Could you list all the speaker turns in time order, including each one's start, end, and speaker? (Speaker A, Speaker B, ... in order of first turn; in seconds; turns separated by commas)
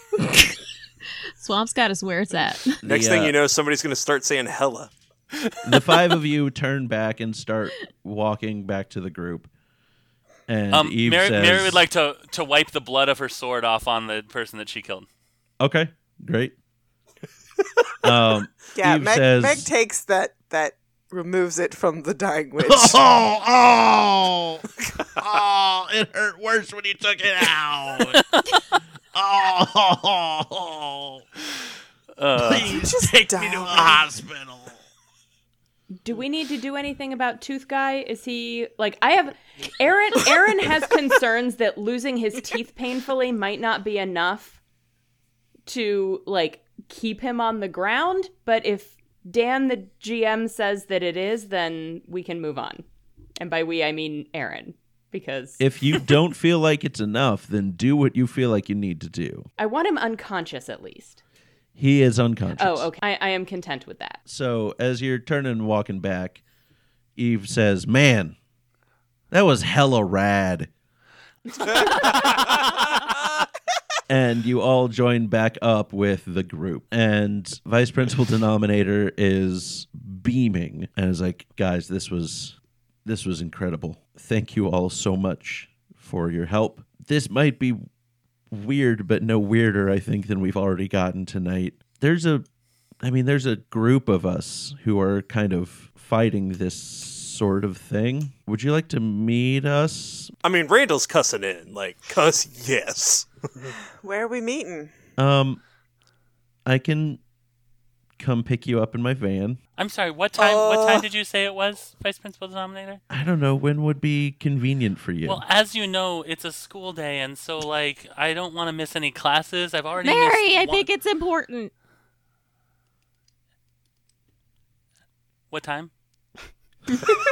Speaker A: 1.4-2.8, Speaker B: 2.8-3.4, Speaker C: 2.8-4.9, Speaker B: 5.6-9.5, Speaker B: 10.5-11.8, Speaker D: 10.7-15.1, Speaker B: 15.6-16.6, Speaker B: 18.0-19.7, Speaker E: 18.7-23.0, Speaker B: 22.6-28.2, Speaker B: 29.1-31.2, Speaker D: 32.2-32.8, Speaker B: 32.4-34.8, Speaker E: 32.5-34.0, Speaker F: 36.0-44.6, Speaker F: 45.7-52.9, Speaker F: 53.4-56.0, Speaker B: 55.6-59.5, Speaker F: 59.6-61.2, Speaker B: 61.8-62.9, Speaker F: 62.6-64.2, Speaker B: 64.3-66.4, Speaker B: 67.2-68.3, Speaker B: 69.3-70.7, Speaker B: 74.1-87.8, Speaker B: 88.5-92.4, Speaker B: 93.0-100.3, Speaker C: 100.4-103.3, Speaker E: 104.0-104.9, Speaker B: 105.2-105.6, Speaker B: 106.7-107.2, Speaker B: 108.2-109.6, Speaker D: 109.8-113.0, Speaker E: 110.4-111.0, Speaker B: 113.1-115.4, Speaker D: 115.2-120.9, Speaker A: 120.0-121.7, Speaker D: 125.5-125.9